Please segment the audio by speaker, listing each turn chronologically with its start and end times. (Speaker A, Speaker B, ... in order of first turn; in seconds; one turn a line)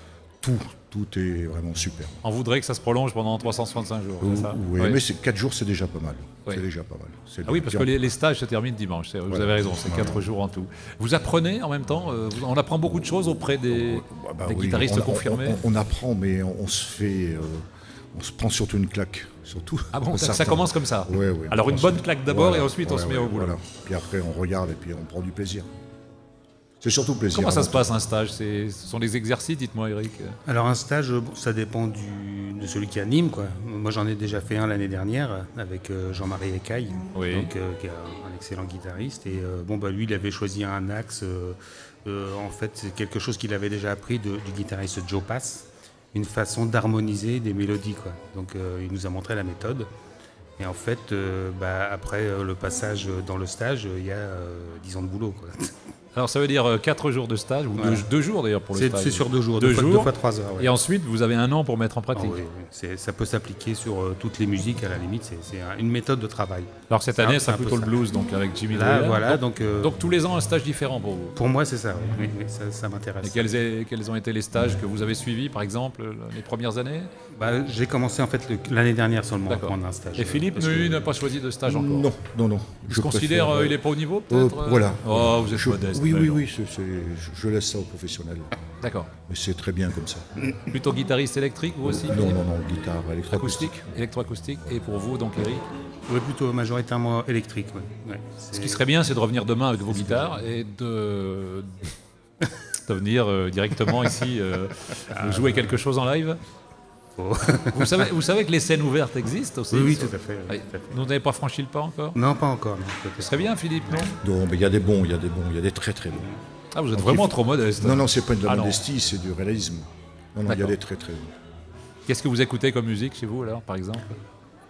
Speaker A: 0.4-2.2
Speaker B: 2.2-5.0
Speaker A: 4.2-7.9
Speaker B: 7.5-15.6
Speaker A: 9.3-10.2
Speaker A: 13.7-25.7
Speaker B: 19.9-23.6
Speaker A: 26.8-28.0
Speaker B: 27.3-30.4
Speaker C: 30.4-49.9
Speaker B: 37.1-37.5
Speaker C: 50.6-55.7
Speaker B: 56.1-62.4
Speaker C: 57.8-58.0
Speaker C: 58.7-60.7
Speaker C: 62.1-68.0
Speaker B: 66.9-71.3
Speaker C: 68.7-70.0
Speaker C: 71.3-73.5
Speaker B: 73.2-77.1
Speaker C: 77.3-81.1
Speaker B: 79.5-82.1
Speaker A: 81.6-88.5
Speaker B: 82.9-86.4
Speaker B: 88.8-89.1
Speaker A: 89.3-90.2
Speaker B: 90.7-92.4
Speaker A: 91.8-93.9
Speaker B: 93.3-95.6
Speaker C: 96.1-98.8
Speaker B: 98.5-101.9
Speaker C: 99.9-100.4
Speaker B: 102.8-106.4
Speaker C: 105.1-105.7
Speaker C: 107.2-108.1
Speaker B: 107.7-112.2
Speaker C: 109.7-111.0
Speaker C: 112.1-113.5
Speaker B: 113.2-114.2
Speaker A: 114.2-116.3
Speaker B: 116.7-118.8
Speaker A: 116.9-121.3
Speaker B: 120.4-120.7
Speaker B: 122.1-124.0